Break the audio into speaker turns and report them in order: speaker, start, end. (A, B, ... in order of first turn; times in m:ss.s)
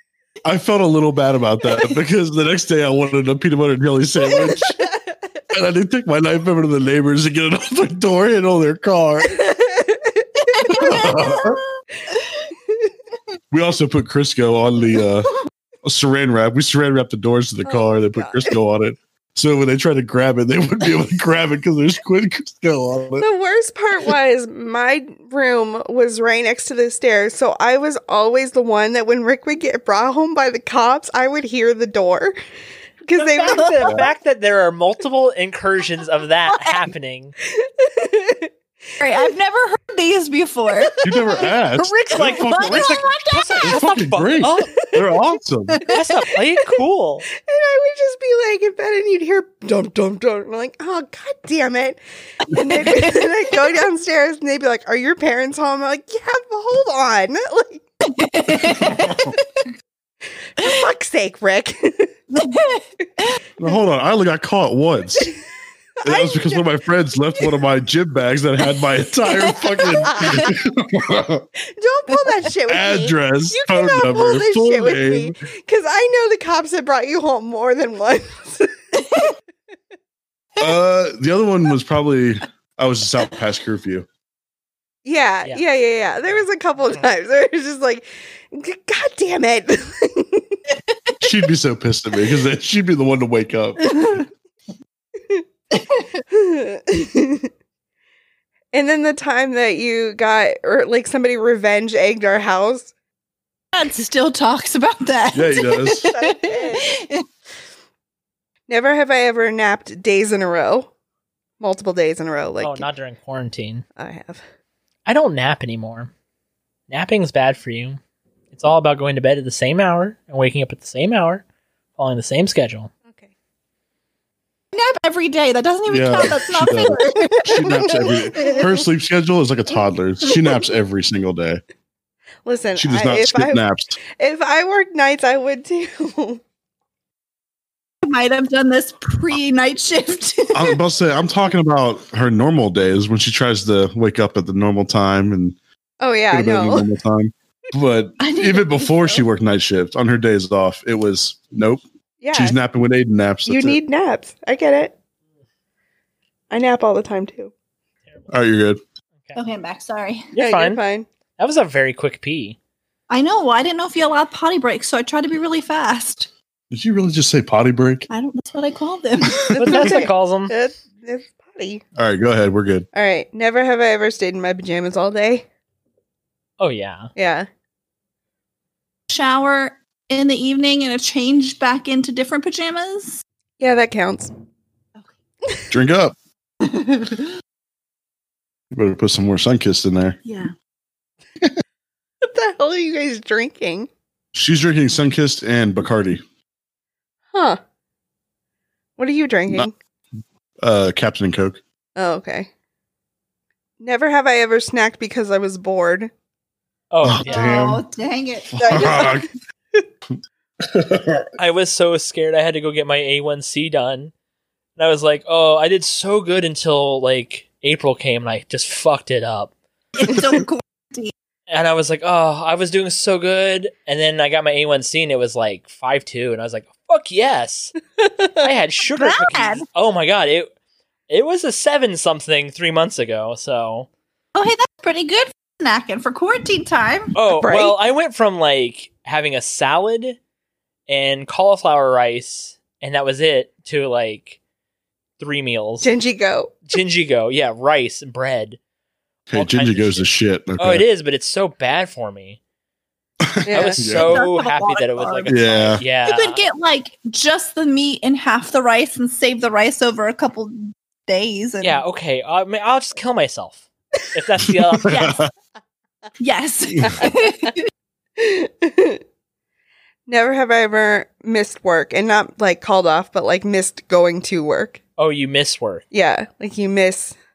0:00.4-0:04.8 A
0:04.3-0:05.1 B
0:05.5-0:09.4 A
0:09.2-0:11.1 B
0:10.5-0:11.6 C
0:10.7-0:11.6 A
0:13.5-0:15.3 A
0:15.8-0:23.2 A
0:17.7-0:18.4 B
0:23.2-0:32.4 B
0:33.1-0:33.9 B
0:33.1-0:37.4 D
0:33.5-0:33.9 C
0:36.6-0:36.8 C
0:37.5-0:38.5 B
0:39.0-0:41.4 C
0:40.8-0:41.2 B
0:41.0-0:43.0 A
0:41.8-0:44.8 D
0:42.2-0:43.8 C
0:43.6-0:45.8 A
0:44.9-0:45.2 B
0:45.7-0:46.0 C
0:45.9-0:47.2 D
0:47.4-0:57.8 B
0:52.5-0:53.2 C
0:58.1-0:59.7 C
0:58.6-0:59.4 A
1:00.6-1:02.1 B
1:02.4-1:03.4 C
1:03.6-1:05.3 A
1:06.0-1:06.6 B
1:06.0-1:11.4 A
1:09.6-1:10.5 B
1:11.6-1:18.7 B
1:12.7-1:15.4 A
1:20.6-1:24.1 A
1:25.0-1:30.6 B
1:30.7-1:31.2 C
1:31.2-1:34.0 A
1:33.9-1:34.2 C
1:35.7-1:36.2 C
1:36.3-1:37.5 B
1:38.7-1:42.9 B
1:43.7-1:47.2 C
1:45.3-1:46.1 A
1:45.9-1:46.9 B
1:48.7-1:50.9 B
1:51.6-1:52.9 B
1:52.6-1:53.8 D
1:54.0-1:54.4 B
1:55.1-1:56.1 D
1:56.9-1:58.0 D
1:58.5-2:01.4 D
2:02.0-2:02.9 D
2:04.7-2:08.8 C
2:05.9-2:11.6 A
2:07.2-2:08.7 B
2:12.4-2:16.4 B
2:12.8-2:14.0 A
2:18.0-2:20.8 C
2:20.5-2:25.6 A
2:26.0-2:26.9 B
2:26.3-2:33.8 A
2:28.2-2:29.2 C
2:32.2-2:32.6 B
2:33.4-2:34.9 B
2:36.5-2:37.5 B
2:38.3-2:38.8 A
2:39.4-2:40.3 C
2:40.4-2:40.8 D
2:40.4-2:41.1 B
2:41.4-2:42.6 D
2:43.1-2:46.3 C
2:46.7-2:48.1 A
2:48.1-2:50.0 C
2:49.5-2:51.8 B
2:49.6-2:50.5 D
2:52.0-2:52.9 A
2:52.9-2:55.4 B
2:56.6-2:57.1 D
2:57.2-2:57.5 B
2:59.1-3:03.2 C
3:03.6-3:04.3 B
3:05.7-3:06.1 A
3:06.7-3:07.3 C
3:08.7-3:10.2 A
3:10.2-3:10.5 C
3:12.2-3:13.9 B
3:14.4-3:16.2 A
3:17.3-3:17.6 B
3:19.0-3:19.7 B
3:20.6-3:21.6 A
3:22.0-3:22.5 B
3:23.8-3:26.1 B
3:26.9-3:27.6 D
3:27.0-3:27.8 A
3:27.2-3:29.1 C
3:28.5-3:29.3 A
3:28.6-3:29.2 B
3:30.6-3:31.3 A
3:31.4-3:34.1 D
3:34.8-3:39.5 D
3:40.0-3:41.1 C
3:41.5-3:47.7 D
3:48.0-3:48.4 B
3:48.4-3:50.5 D
3:49.0-3:49.6 C
3:51.1-3:53.9 D
3:54.4-3:57.1 C
3:57.1-4:00.2 D
3:57.4-3:57.7 B
4:00.9-4:04.4 D
4:05.2-4:05.9 D
4:05.8-4:06.6 B
4:06.7-4:08.6 D
4:09.3-4:10.8 A
4:09.3-4:12.4 D
4:13.2-4:14.2 A
4:13.5-4:13.8 B
4:13.5-4:16.4 D
4:13.8-4:21.8 C
4:15.3-4:15.8 A
4:21.6-4:25.2 D
4:24.8-4:25.3 A
4:26.2-4:27.7 C
4:28.2-4:29.0 B
4:30.1-4:34.8 B
4:35.0-4:35.8 D
4:35.9-4:37.1 B